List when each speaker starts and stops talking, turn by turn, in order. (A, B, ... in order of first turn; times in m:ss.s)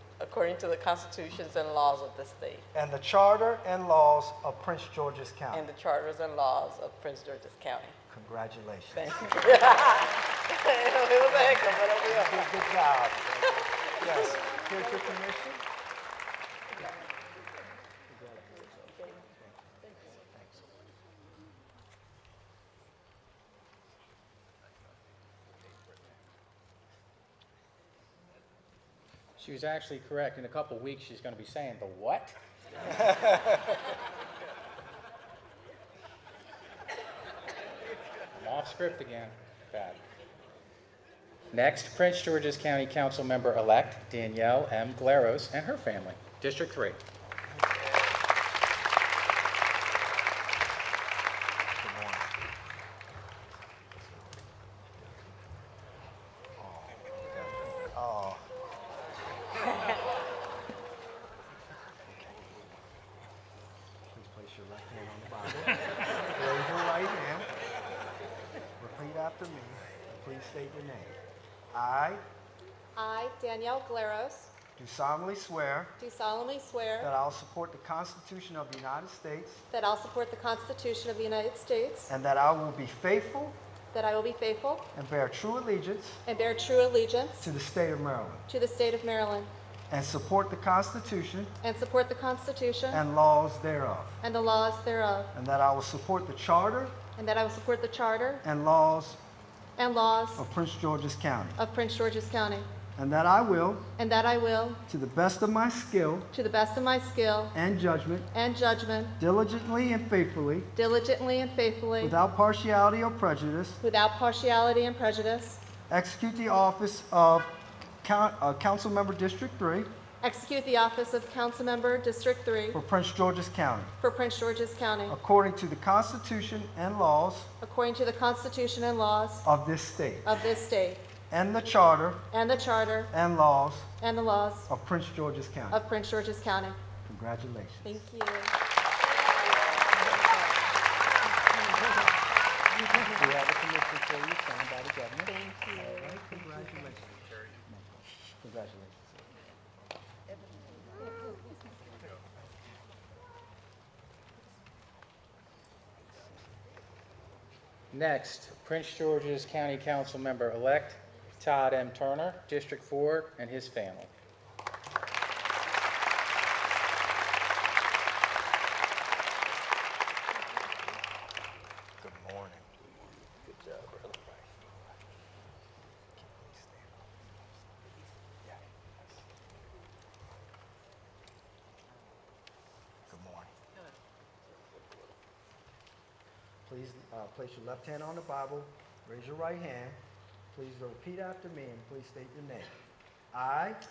0:00.2-0:02.6 A
0:02.7-0:05.7 B
0:05.5-0:08.0 A
0:08.1-0:09.2 B
0:08.9-0:12.6 A
0:12.0-0:15.6 B
0:14.0-0:15.1 A
0:18.1-0:20.7 B
0:29.4-0:32.3 C
0:38.4-0:40.0 C
0:41.5-0:47.0 C
0:51.8-0:52.4 B
0:56.6-0:58.5 B
1:02.1-1:02.6 B
1:04.1-1:05.8 B
1:06.3-1:07.5 B
1:08.8-1:11.2 B
1:11.7-1:12.2 B
1:13.0-1:14.5 D
1:14.8-1:15.9 B
1:16.0-1:17.1 D
1:17.0-1:19.6 B
1:19.7-1:22.1 D
1:22.1-1:23.6 B
1:23.9-1:24.9 D
1:24.9-1:26.2 B
1:26.2-1:27.5 D
1:27.4-1:28.4 B
1:28.5-1:29.5 D
1:29.9-1:31.5 B
1:31.6-1:33.0 D
1:32.9-1:34.2 B
1:34.2-1:35.3 D
1:35.3-1:37.0 B
1:37.2-1:38.4 D
1:38.4-1:39.2 B
1:39.8-1:40.4 D
1:40.4-1:41.6 B
1:41.6-1:42.7 D
1:43.0-1:43.8 B
1:44.0-1:44.8 D
1:44.9-1:46.3 B
1:46.3-1:47.5 D
1:47.5-1:48.3 B
1:48.3-1:49.2 D
1:49.2-1:50.7 B
1:50.7-1:52.2 D
1:52.0-1:53.8 B
1:53.8-1:55.6 D
1:55.9-1:57.5 B
1:58.0-1:59.9 B
2:00.2-2:02.8 D
2:02.7-2:03.9 B
2:04.0-2:05.2 D
2:05.1-2:07.5 B
2:07.6-2:09.4 D
2:09.4-2:10.3 B
2:10.2-2:11.0 D
2:11.3-2:12.2 B
2:12.3-2:13.1 D
2:13.1-2:13.9 B
2:14.0-2:14.7 D
2:14.7-2:15.8 B
2:15.7-2:16.8 D
2:17.0-2:18.0 B
2:17.8-2:18.5 D
2:20.0-2:20.3 A
2:23.0-2:29.2 B
2:25.2-2:26.9 A
2:37.9-2:44.1 C
2:52.0-2:52.7 B
2:53.7-2:54.7 B
2:56.2-2:57.2 B
2:58.4-2:59.2 B
3:03.1-3:03.5 B
3:06.6-3:10.0 B
3:10.5-3:12.7 B
3:13.3-3:13.8 B